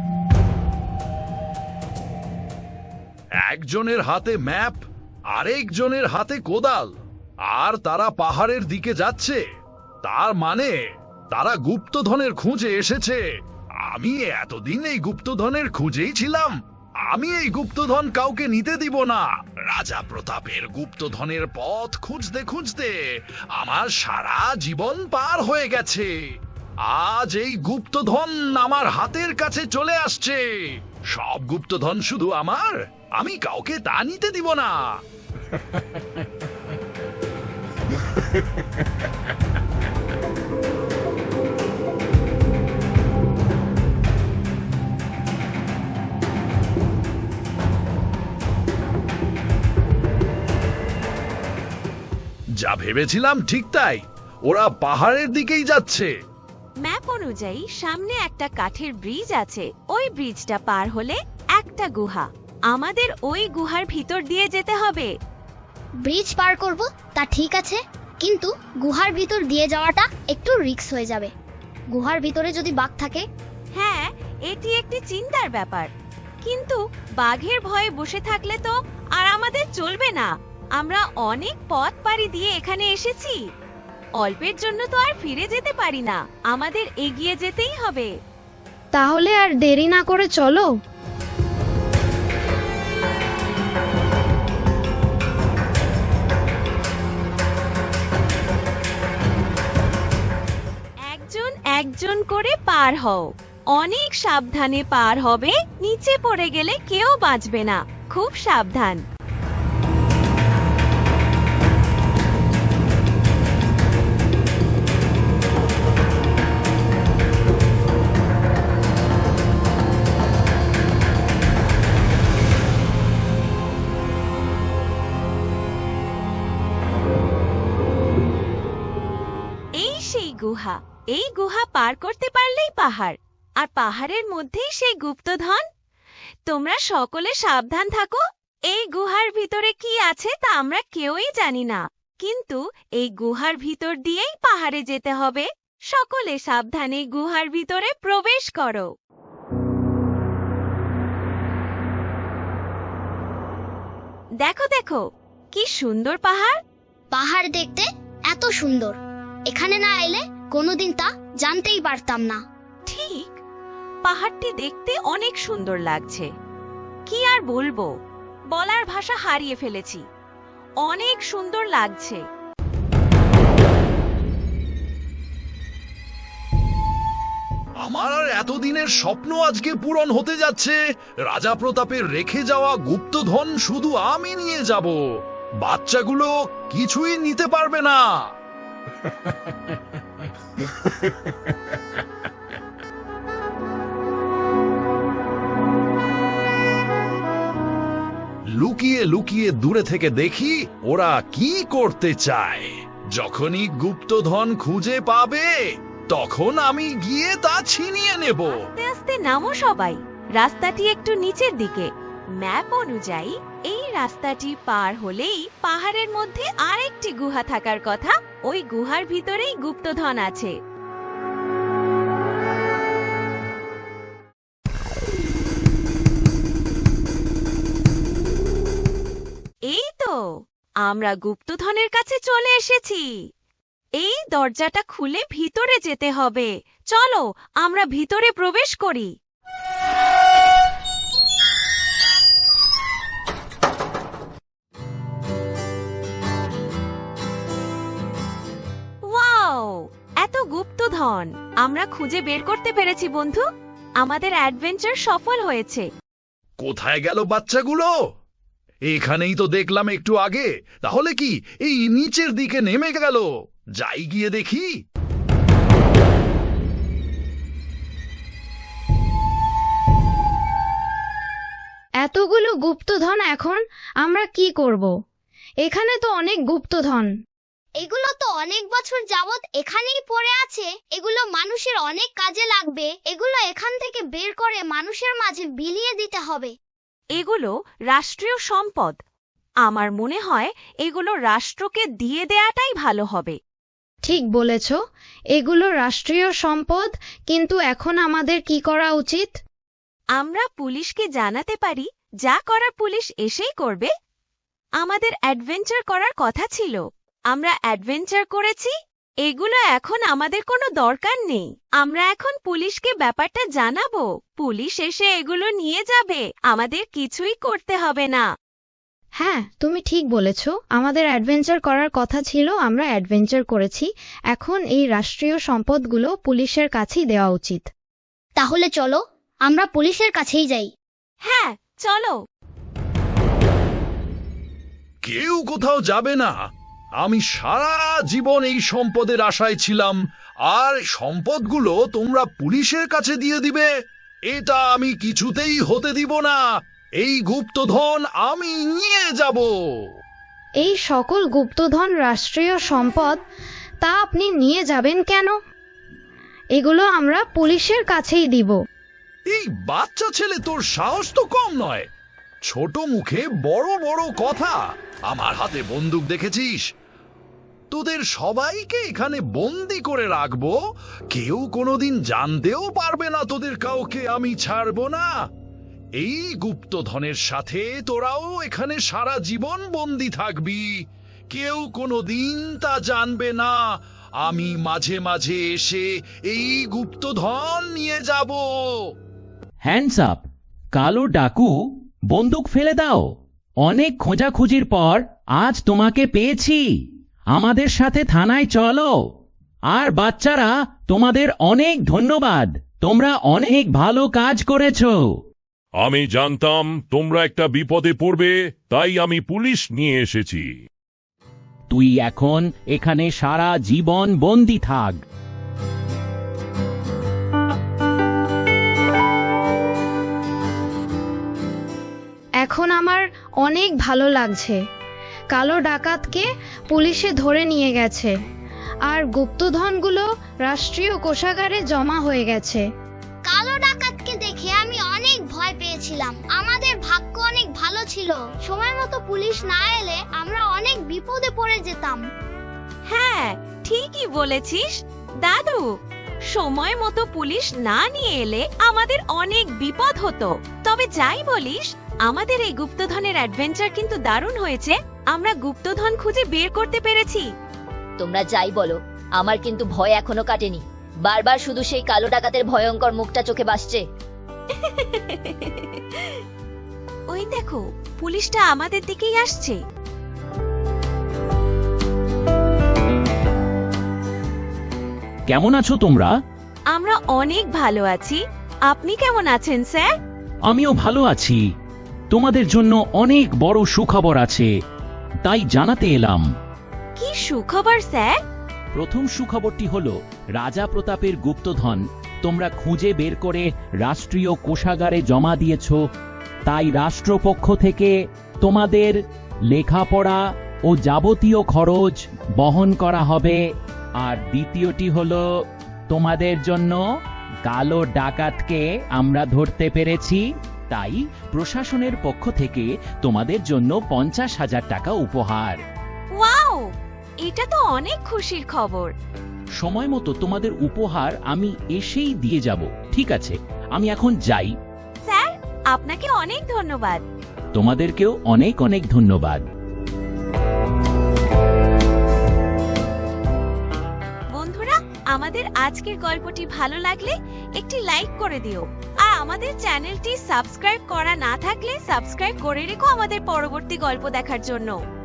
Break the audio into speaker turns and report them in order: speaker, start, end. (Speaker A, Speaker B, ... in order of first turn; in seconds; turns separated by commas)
Speaker A: 3.5-6.9, Speaker A: 7.5-9.4, Speaker A: 10.0-10.7, Speaker A: 11.3-13.2, Speaker A: 13.9-16.5, Speaker A: 17.1-22.9, Speaker A: 23.6-26.1, Speaker A: 26.9-30.4, Speaker A: 31.1-34.8, Speaker A: 52.6-56.1, Speaker B: 56.8-65.1, Speaker C: 66.0-71.3, Speaker C: 71.9-73.2, Speaker B: 73.8-75.9, Speaker B: 76.4-83.4, Speaker B: 84.2-88.1, Speaker D: 88.9-90.7, Speaker B: 101.1-109.0, Speaker B: 129.8-135.6, Speaker B: 136.5-148.9, Speaker B: 154.4-155.0, Speaker B: 155.5-156.6, Speaker C: 157.1-159.0, Speaker C: 159.5-162.4, Speaker B: 162.9-163.4, Speaker B: 164.0-166.3, Speaker B: 167.1-167.9, Speaker B: 168.5-170.0, Speaker B: 170.8-172.2, Speaker A: 177.8-180.8, Speaker A: 181.3-185.0, Speaker A: 185.6-188.0, Speaker A: 198.6-205.5, Speaker A: 206.1-208.6, Speaker B: 208.5-211.9, Speaker B: 212.4-220.5, Speaker B: 229.7-230.2, Speaker B: 230.8-233.1, Speaker B: 234.0-239.1, Speaker B: 249.1-253.4, Speaker B: 254.0-255.9, Speaker A: 256.6-257.9, Speaker A: 258.9-263.2, Speaker A: 263.8-264.7, Speaker D: 272.0-274.9, Speaker D: 275.6-277.1, Speaker C: 277.8-286.5, Speaker B: 287.1-289.0, Speaker B: 289.6-293.4, Speaker D: 294.0-294.8, Speaker D: 295.3-299.4, Speaker B: 300.2-303.9, Speaker B: 304.8-308.7, Speaker B: 309.2-318.2, Speaker D: 319.2-327.7, Speaker C: 328.4-330.7, Speaker B: 331.2-332.1, Speaker A: 335.0-336.3, Speaker A: 337.0-340.0, Speaker A: 340.5-343.7, Speaker A: 344.3-346.4, Speaker A: 347.0-349.5, Speaker D: 350.6-353.2, Speaker D: 353.8-355.3, Speaker D: 356.5-358.6, Speaker A: 359.3-361.9, Speaker A: 362.5-366.6, Speaker A: 367.7-370.6, Speaker A: 371.1-375.1, Speaker A: 376.0-380.7, Speaker A: 381.3-383.6, Speaker A: 384.2-388.5, Speaker E: 389.6-391.5, Speaker E: 392.1-396.8, Speaker E: 397.3-399.0, Speaker E: 399.7-405.1, Speaker F: 405.8-410.5, Speaker E: 411.7-415.0, Speaker D: 422.4-424.6, Speaker D: 425.3-428.1, Speaker D: 428.9-432.6, Speaker C: 433.2-442.0, Speaker B: 442.9-445.7, Speaker B: 446.3-457.3, Speaker G: 458.0-463.8, Speaker B: 467.1-469.6, Speaker E: 475.3-476.1, Speaker B: 476.7-479.9, Speaker E: 480.5-481.4, Speaker E: 482.1-484.5, Speaker E: 485.2-486.3, Speaker B: 487.0-488.2, Speaker E: 488.7-495.8, Speaker E: 496.5-499.0, Speaker E: 499.5-503.4, Speaker E: 504.0-505.2, Speaker E: 505.9-506.8, Speaker E: 507.4-515.6, Speaker B: 516.1-516.6, Speaker B: 517.2-518.9, Speaker E: 519.6-524.5, Speaker B: 525.1-527.0, Speaker E: 527.5-529.4, Speaker B: 534.3-544.8